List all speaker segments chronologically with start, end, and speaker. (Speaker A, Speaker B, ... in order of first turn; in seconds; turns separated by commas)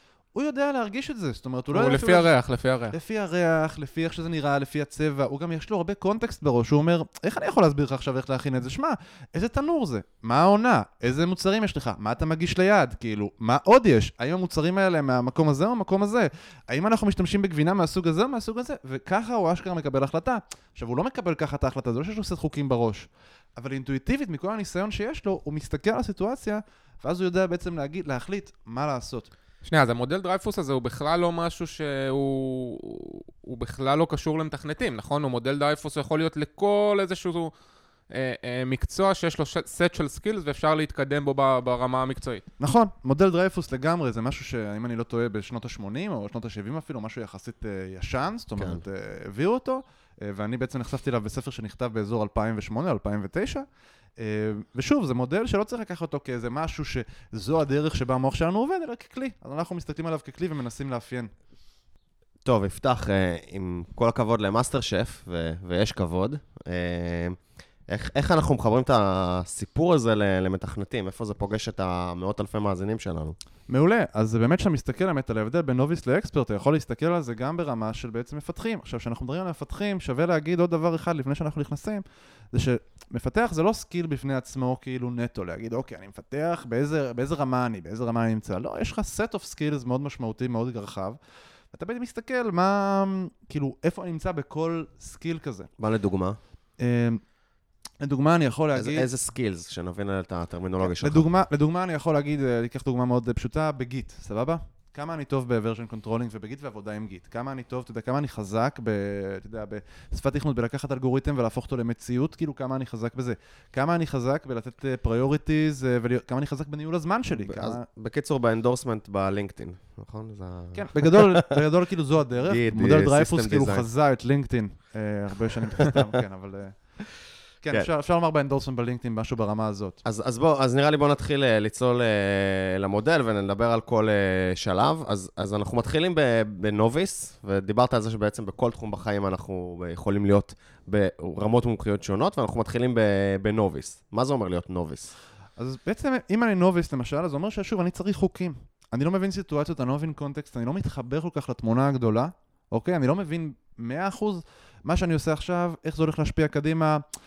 Speaker A: 0.3-2.3, Speaker B: 1.7-2.9, Speaker A: 2.9-29.3, Speaker B: 29.6-37.5, Speaker B: 38.1-42.5, Speaker A: 42.6-53.6, Speaker A: 54.2-61.3, Speaker C: 62.4-73.3, Speaker A: 73.7-91.2, Speaker A: 91.7-95.7, Speaker C: 95.8-96.4, Speaker A: 96.8-97.2, Speaker A: 98.0-99.1, Speaker C: 98.7-101.3, Speaker A: 100.8-117.8, Speaker C: 117.5-121.5, Speaker A: 120.7-126.9, Speaker C: 122.5-123.9, Speaker C: 125.8-126.0, Speaker A: 127.6-130.0, Speaker C: 130.0-145.1, Speaker A: 145.6-157.0